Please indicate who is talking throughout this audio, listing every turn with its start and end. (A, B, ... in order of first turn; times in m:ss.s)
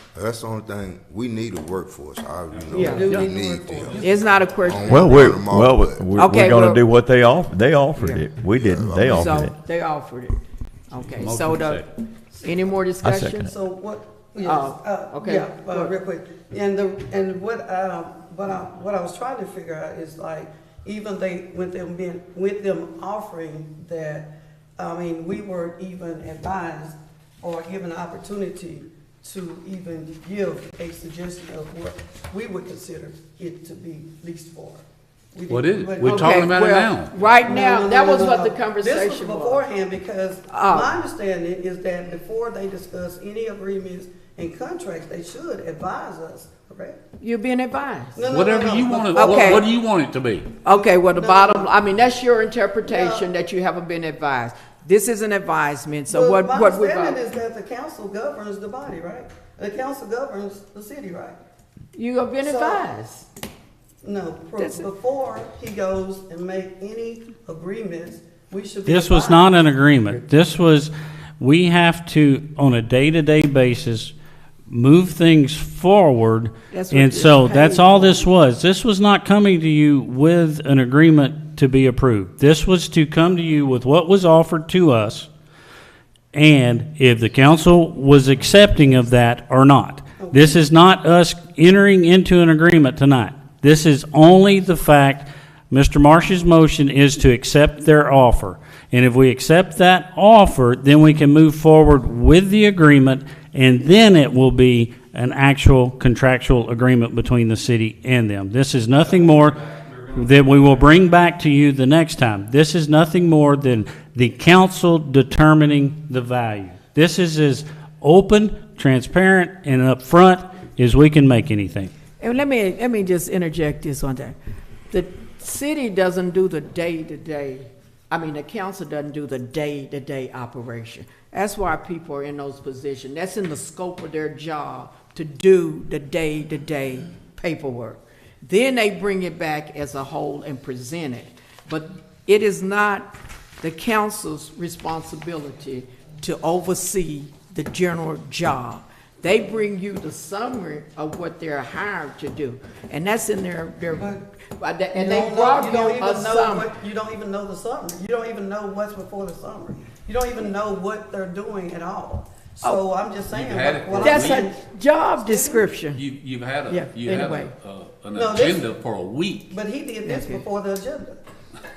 0:00.1-0:04.0 A
0:02.5-0:03.3 B
0:02.7-0:04.4 C
0:02.7-0:03.1 D
0:04.0-0:05.4 D
0:04.6-0:06.1 A
0:04.9-0:09.5 E
0:06.1-0:06.8 D
0:08.0-0:08.2 D
0:08.6-0:09.4 A
0:09.1-0:10.4 D
0:10.9-0:11.8 D
0:11.1-0:11.9 B
0:12.3-0:12.7 C
0:12.4-0:13.5 D
0:13.0-0:13.5 E
0:13.4-0:36.6 C
0:14.4-0:15.9 D
0:35.5-0:37.1 B
0:36.0-0:39.6 D
0:37.4-0:47.0 C
0:40.5-0:41.0 D
0:47.2-0:48.3 D
0:48.1-0:49.7 C
0:48.3-0:50.5 B
0:49.1-0:49.7 D
0:50.6-0:57.2 D
0:50.7-0:51.7 C
0:52.8-0:53.3 C
0:56.1-1:01.4 C
1:01.9-1:03.2 D
1:02.4-1:02.9 C
1:04.0-1:09.6 C
1:04.6-1:04.9 D
1:08.8-1:14.1 F
1:14.7-1:25.3 F
1:16.7-1:18.3 D
1:26.3-1:49.6 F
1:30.2-1:30.7 C
1:49.1-1:50.8 B
1:50.1-2:01.9 F
2:02.2-2:04.4 D
2:04.9-2:36.7 D
2:33.9-2:34.3 C
2:34.9-2:44.6 C
2:43.3-2:44.5 B
2:44.0-2:46.0 D
2:45.2-2:45.6 C
2:45.9-2:49.5 B
2:46.7-2:47.5 D
2:48.1-2:48.7 C
2:49.5-2:51.2 C
2:50.0-2:50.4 D